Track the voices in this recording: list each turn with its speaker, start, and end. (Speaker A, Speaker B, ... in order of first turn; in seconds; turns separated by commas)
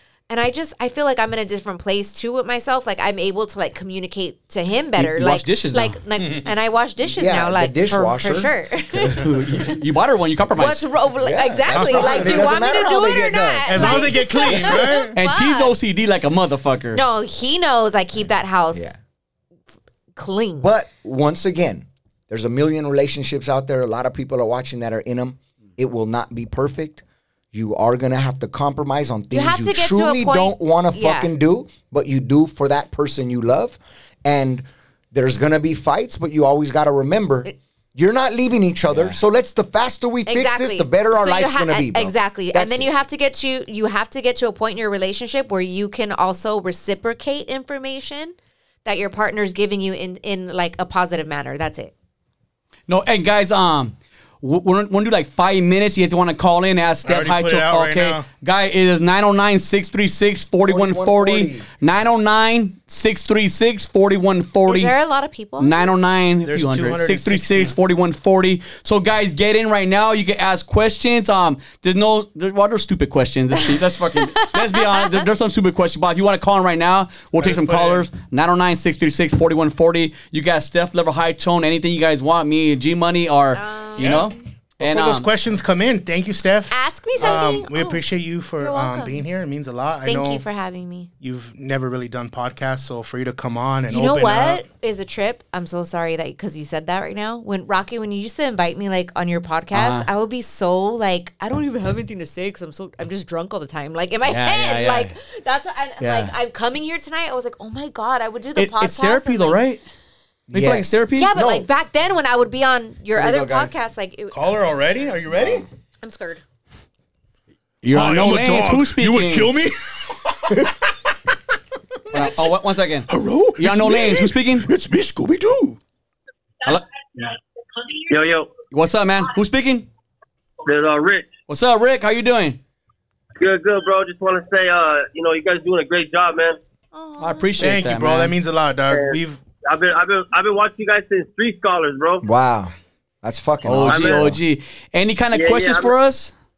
Speaker A: 0.3-9.2, Speaker B: 5.0-6.0, Speaker C: 6.2-6.5, Speaker D: 7.2-9.3, Speaker B: 9.2-10.8, Speaker A: 10.5-15.7, Speaker D: 11.2-14.8, Speaker C: 11.7-13.0, Speaker C: 13.7-15.1, Speaker B: 15.2-17.0, Speaker A: 16.9-18.9, Speaker A: 20.1-20.7, Speaker D: 20.6-42.9, Speaker A: 29.3-31.3, Speaker B: 38.9-39.2, Speaker A: 40.2-51.9, Speaker B: 52.9-64.9, Speaker C: 57.0-58.2, Speaker D: 60.6-61.6, Speaker A: 64.7-65.9, Speaker B: 65.6-85.3, Speaker C: 66.4-67.7, Speaker A: 74.4-75.1, Speaker C: 77.3-78.0, Speaker A: 83.5-84.4, Speaker C: 84.0-90.4, Speaker A: 86.7-88.0, Speaker A: 88.6-89.2, Speaker A: 90.0-91.1, Speaker C: 91.2-94.6, Speaker A: 93.9-109.6, Speaker B: 99.7-100.1, Speaker B: 104.2-105.1, Speaker B: 106.0-106.3, Speaker B: 108.5-109.8, Speaker D: 110.5-111.7, Speaker B: 110.5-111.3, Speaker A: 111.1-114.6, Speaker B: 113.1-113.8, Speaker C: 114.3-115.7, Speaker A: 116.0-116.4, Speaker B: 117.8-119.5, Speaker C: 117.8-120.9, Speaker B: 122.1-124.7, Speaker C: 122.1-122.4, Speaker C: 123.1-125.8, Speaker E: 128.1-128.5, Speaker B: 128.7-129.9, Speaker E: 130.6-131.3, Speaker B: 131.5-132.6, Speaker E: 133.4-136.6, Speaker A: 136.9-137.5, Speaker B: 137.2-138.3, Speaker C: 137.6-139.4, Speaker E: 138.9-142.2, Speaker D: 142.2-144.4, Speaker B: 143.6-146.3, Speaker E: 143.8-144.3, Speaker E: 145.3-145.9